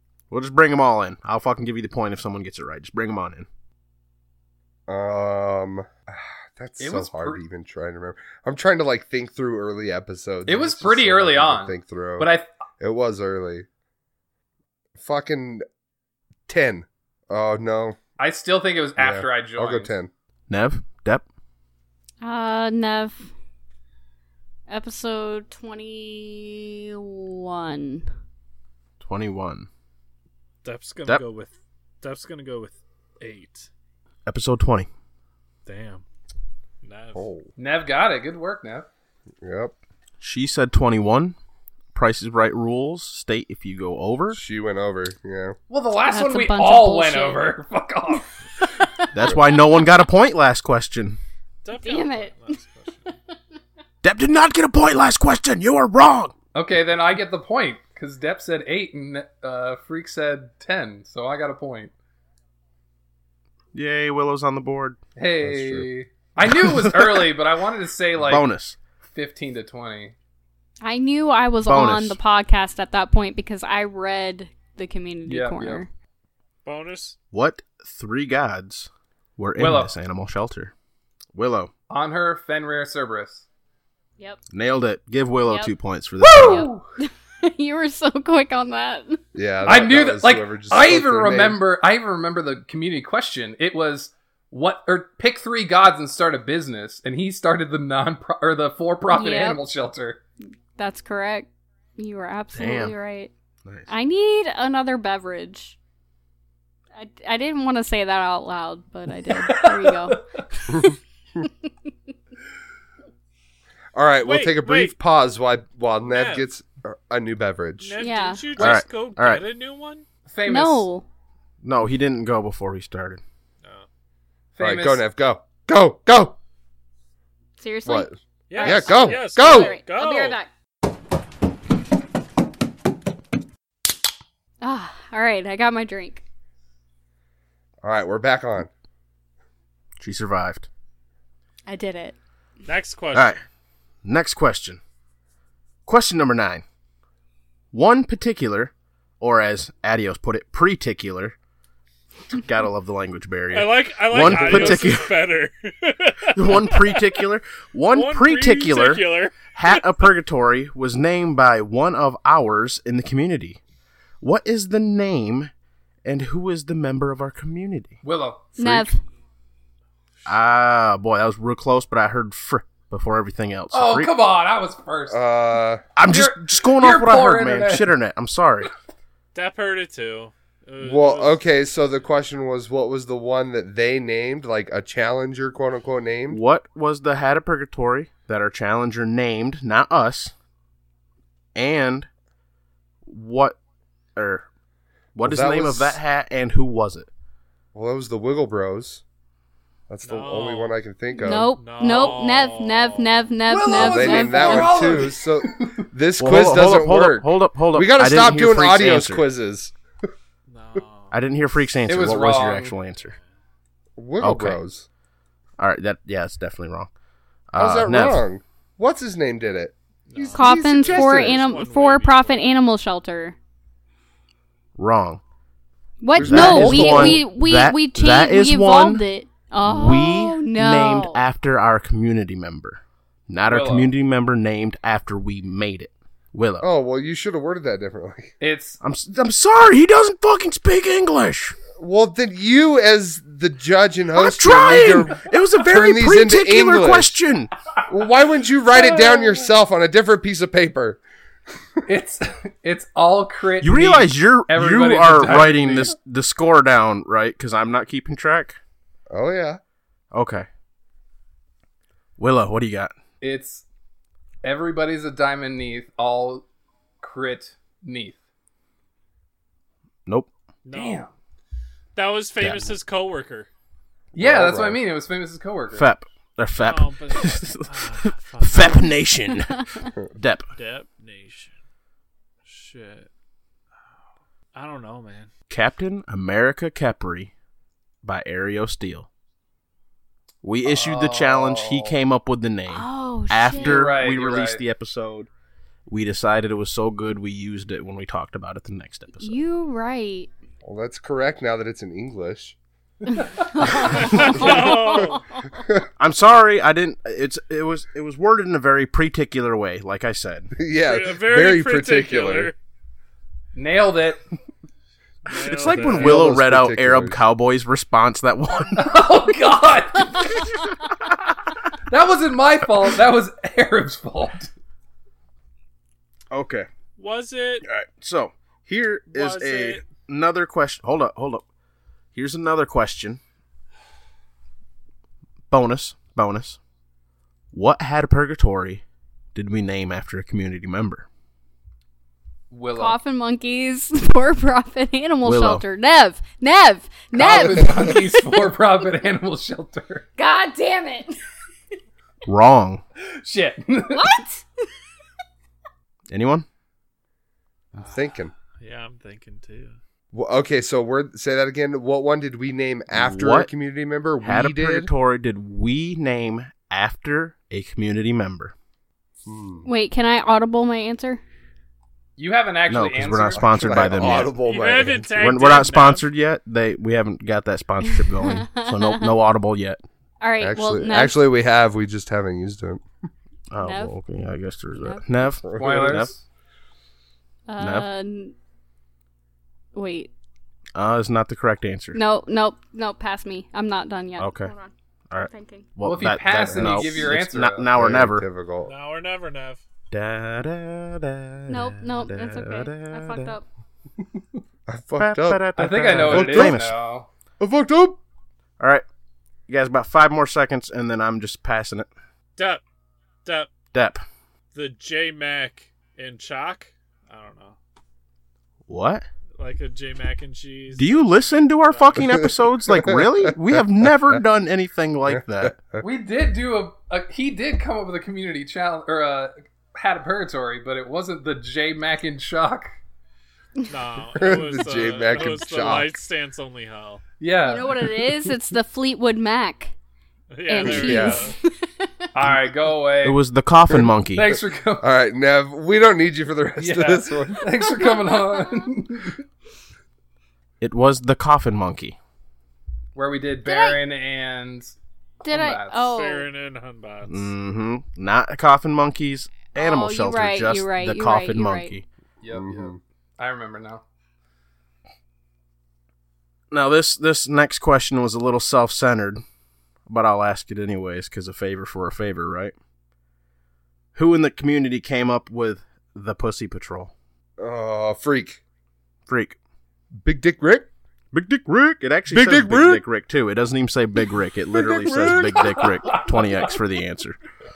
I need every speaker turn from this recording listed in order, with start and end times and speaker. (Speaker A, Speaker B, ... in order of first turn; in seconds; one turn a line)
Speaker A: 0.3-3.5
Speaker B: 4.9-13.7
Speaker C: 6.8-7.4
Speaker C: 10.4-12.5
Speaker B: 15.0-15.6
Speaker B: 16.5-18.0
Speaker C: 18.2-19.9
Speaker B: 19.0-20.1
Speaker A: 20.5-21.2
Speaker D: 22.2-23.3
Speaker D: 24.7-28.1
Speaker A: 29.0-29.7
Speaker E: 30.6-33.7
Speaker A: 34.2-34.9
Speaker E: 35.6-36.0
Speaker E: 36.8-37.2
Speaker B: 37.1-37.5
Speaker C: 37.6-38.9
Speaker B: 39.4-39.7
Speaker A: 40.2-41.4
Speaker A: 41.9-44.4
Speaker B: 44.3-45.6
Speaker C: 45.7-48.3
Speaker D: 46.1-47.6
Speaker D: 48.6-49.1
Speaker A: 49.1-51.2
Speaker E: 51.6-53.1
Speaker D: 51.8-52.6
Speaker A: 54.0-56.3
Speaker C: 56.5-61.9
Speaker A: 63.7-65.0
Speaker C: 65.2-68.4
Speaker B: 65.4-65.9
Speaker A: 66.5-67.2
Speaker A: 68.2-68.8
Speaker C: 69.0-70.1
Speaker D: 70.8-75.9
Speaker A: 71.6-72.2
Speaker C: 75.3-75.8
Speaker E: 76.6-77.2
Speaker A: 77.3-80.7
Speaker C: 79.6-79.9
Speaker A: 81.3-81.7
Speaker C: 81.9-83.5
Speaker A: 84.5-86.7
Speaker D: 85.5-85.7
Speaker C: 86.2-86.9
Speaker D: 86.3-89.2
Speaker B: 89.3-91.6
Speaker C: 89.6-100.2
Speaker D: 99.1-99.6
Speaker D: 100.8-103.3
Speaker A: 102.5-102.9
Speaker A: 103.6-103.9
Speaker D: 103.9-105.8
Speaker D: 106.9-110.2
Speaker C: 109.2-110.4
Speaker B: 110.7-111.0
Speaker B: 113.9-118.0
Speaker E: 114.2-114.9
Speaker E: 116.0-116.5
Speaker E: 117.8-120.0
Speaker D: 118.0-118.4
Speaker A: 118.6-119.5
Speaker C: 120.2-120.9
Speaker D: 120.4-121.0
Speaker A: 121.6-123.2
Speaker C: 124.5-125.0
Speaker B: 124.6-126.3
Speaker D: 127.6-130.5
Speaker B: 127.8-129.8
Speaker E: 128.5-130.4
Speaker D: 134.6-136.2
Speaker B: 137.8-138.7
Speaker A: 140.0-140.7
Speaker D: 141.7-142.1
Speaker E: 142.6-143.3
Speaker A: 143.1-143.4
Speaker A: 144.0-144.8
Speaker A: 145.8-146.6
Speaker A: 147.7-151.3
Speaker A: 152.3-155.1
Speaker E: 153.5-157.2
Speaker A: 156.3-163.6
Speaker E: 157.9-160.1
Speaker A: 164.2-165.5
Speaker A: 166.0-168.0
Speaker C: 168.0-168.5
Speaker D: 168.6-169.0
Speaker A: 168.6-168.9
Speaker A: 170.2-174.1
Speaker C: 173.7-175.2
Speaker B: 175.1-175.8
Speaker A: 175.9-178.7
Speaker C: 176.0-177.9
Speaker E: 179.3-181.4
Speaker B: 180.8-186.4
Speaker A: 186.3-190.3
Speaker A: 191.5-192.1
Speaker A: 193.0-193.6
Speaker A: 194.2-194.4
Speaker A: 195.2-197.1
Speaker B: 195.2-196.0
Speaker B: 197.7-199.0
Speaker B: 199.9-201.5
Speaker E: 200.0-200.8
Speaker D: 201.2-205.0
Speaker E: 201.6-203.3
Speaker C: 203.5-205.9
Speaker B: 203.7-209.7
Speaker A: 206.2-209.2
Speaker E: 210.5-211.1
Speaker A: 211.1-213.1
Speaker C: 211.9-212.7
Speaker B: 214.0-214.8
Speaker A: 214.2-214.6
Speaker A: 215.6-216.9
Speaker A: 217.5-218.2
Speaker B: 217.6-221.4
Speaker E: 220.1-222.4
Speaker D: 220.3-223.3
Speaker A: 224.8-225.2
Speaker D: 226.0-231.2
Speaker B: 226.1-227.2
Speaker A: 226.2-229.0
Speaker A: 229.6-236.7
Speaker C: 233.4-233.9
Speaker B: 236.6-238.3
Speaker C: 238.4-238.8
Speaker A: 238.8-241.6
Speaker B: 241.8-247.2
Speaker A: 244.1-247.5
Speaker B: 247.9-251.0
Speaker C: 248.7-249.4
Speaker C: 251.8-255.9
Speaker A: 253.6-258.6
Speaker B: 259.1-259.6
Speaker A: 260.1-260.5
Speaker A: 262.2-262.9
Speaker C: 263.2-263.6
Speaker C: 264.4-266.4
Speaker C: 267.0-268.2
Speaker E: 270.6-271.1
Speaker C: 270.7-271.1
Speaker E: 271.9-273.5
Speaker A: 272.4-272.7
Speaker C: 274.1-275.9
Speaker B: 274.2-274.8
Speaker A: 275.7-280.5
Speaker E: 276.6-278.9
Speaker D: 279.6-279.9
Speaker E: 280.6-281.5
Speaker E: 282.4-283.1
Speaker E: 284.5-285.3
Speaker A: 285.5-287.3
Speaker A: 288.0-289.1
Speaker A: 290.4-295.3
Speaker C: 290.6-291.9
Speaker D: 292.7-293.9
Speaker C: 293.6-294.6
Speaker A: 295.9-299.4
Speaker D: 299.2-300.3
Speaker B: 300.6-302.6
Speaker D: 303.1-305.6
Speaker E: 303.8-305.2
Speaker B: 304.0-305.9
Speaker A: 306.0-310.5
Speaker B: 310.6-312.5
Speaker E: 310.8-312.5
Speaker C: 313.5-314.2
Speaker E: 315.2-316.2
Speaker A: 315.4-319.2
Speaker B: 315.6-317.1
Speaker C: 318.7-320.5
Speaker C: 321.9-324.5
Speaker A: 326.3-326.7
Speaker E: 327.0-327.6
Speaker A: 327.6-331.4
Speaker E: 329.1-329.8
Speaker A: 332.1-333.2
Speaker A: 335.5-336.6
Speaker A: 337.5-338.8
Speaker A: 339.3-341.1
Speaker C: 342.5-343.0
Speaker D: 342.7-348.4
Speaker A: 345.2-345.6
Speaker C: 347.1-350.1
Speaker B: 347.3-347.7
Speaker D: 350.2-351.2
Speaker A: 352.2-352.8
Speaker C: 353.1-354.2
Speaker D: 353.9-354.4
Speaker A: 356.1-356.5
Speaker B: 357.7-358.3
Speaker E: 358.6-359.8
Speaker B: 360.1-364.9
Speaker A: 362.9-363.5
Speaker A: 364.2-368.5
Speaker B: 369.2-369.7
Speaker D: 369.6-371.2
Speaker C: 372.2-374.2
Speaker A: 372.7-374.3
Speaker B: 373.3-375.3
Speaker E: 374.2-376.0
Speaker A: 375.2-379.8
Speaker D: 377.9-379.1
Speaker D: 380.2-381.2
Speaker B: 380.4-382.8
Speaker A: 383.5-386.1
Speaker D: 383.6-383.9
Speaker D: 384.8-385.1
Speaker B: 385.4-386.1
Speaker C: 385.6-386.2
Speaker D: 387.5-388.3
Speaker A: 387.6-387.9
Speaker D: 389.7-390.1
Speaker A: 390.7-392.0
Speaker D: 391.9-395.7
Speaker A: 394.2-394.5
Speaker A: 395.1-398.3
Speaker C: 395.8-397.7
Speaker B: 396.3-397.1
Speaker B: 397.7-398.7
Speaker E: 398.6-399.6
Speaker A: 399.9-403.3
Speaker D: 401.5-403.4
Speaker B: 404.7-406.6
Speaker A: 405.0-406.8
Speaker C: 405.6-407.1
Speaker B: 407.4-408.0
Speaker A: 408.6-408.8
Speaker A: 409.5-411.9
Speaker E: 412.4-412.6
Speaker A: 413.7-414.0
Speaker E: 414.5-417.6
Speaker A: 418.7-419.1
Speaker E: 419.4-422.0
Speaker A: 420.7-425.6
Speaker B: 422.7-423.6
Speaker B: 425.1-425.8
Speaker C: 425.8-432.7
Speaker E: 433.7-437.0
Speaker B: 434.1-435.9
Speaker C: 437.2-437.9
Speaker D: 437.4-439.7
Speaker E: 440.3-441.3
Speaker D: 440.4-442.1
Speaker B: 440.6-441.3
Speaker C: 442.1-443.2
Speaker A: 443.0-444.3
Speaker C: 444.1-444.8
Speaker B: 444.8-447.5
Speaker C: 446.6-449.2
Speaker D: 447.8-448.4
Speaker A: 450.6-452.0
Speaker C: 452.9-455.9
Speaker D: 453.4-453.8
Speaker D: 455.2-456.2
Speaker E: 455.9-457.3
Speaker A: 457.1-461.9
Speaker D: 459.5-461.7
Speaker C: 462.2-463.8
Speaker B: 462.3-462.8
Speaker A: 466.5-469.2
Speaker A: 469.9-472.5
Speaker A: 473.9-476.9
Speaker B: 477.4-478.4
Speaker A: 479.1-479.4
Speaker B: 480.0-480.7
Speaker A: 481.1-487.2
Speaker B: 482.1-482.8
Speaker C: 484.6-486.6
Speaker B: 484.9-485.4